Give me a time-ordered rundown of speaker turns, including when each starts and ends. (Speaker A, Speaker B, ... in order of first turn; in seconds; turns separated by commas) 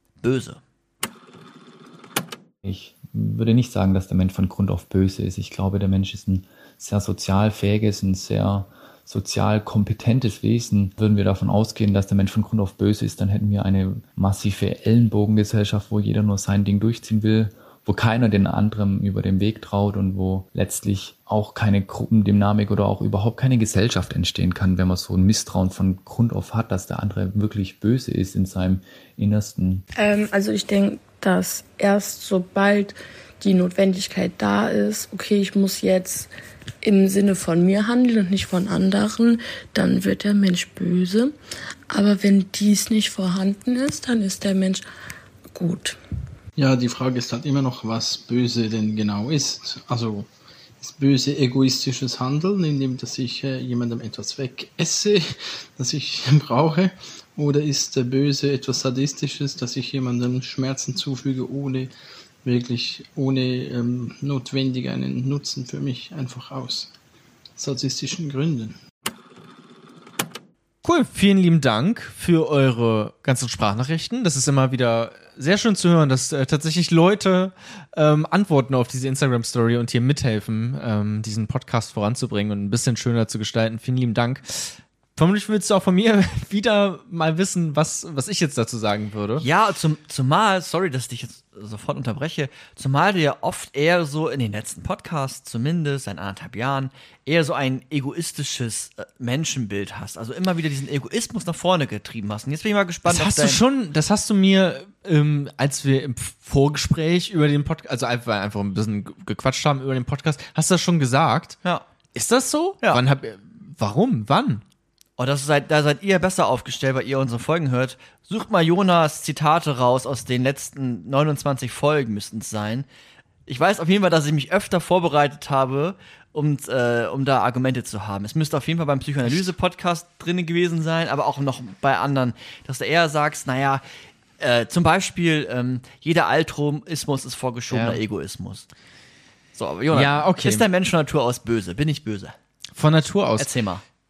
Speaker A: 0.2-0.6, Speaker B: 2.6-29.8, Speaker C: 29.9-36.3, Speaker C: 36.8-41.3, Speaker C: 41.9-44.8, Speaker C: 45.5-46.0, Speaker D: 46.6-50.3, Speaker D: 50.8-61.9, Speaker D: 62.4-66.9, Speaker D: 67.6-68.8, Speaker E: 70.8-89.4, Speaker A: 89.4-103.6, Speaker E: 103.0-111.6, Speaker E: 112.2-114.6, Speaker A: 115.2-122.9, Speaker A: 123.5-133.8, Speaker E: 129.2-129.5, Speaker A: 134.4-138.7, Speaker E: 137.7-138.0, Speaker A: 139.6-142.3, Speaker E: 139.9-140.7, Speaker E: 142.8-143.5, Speaker A: 143.4-143.8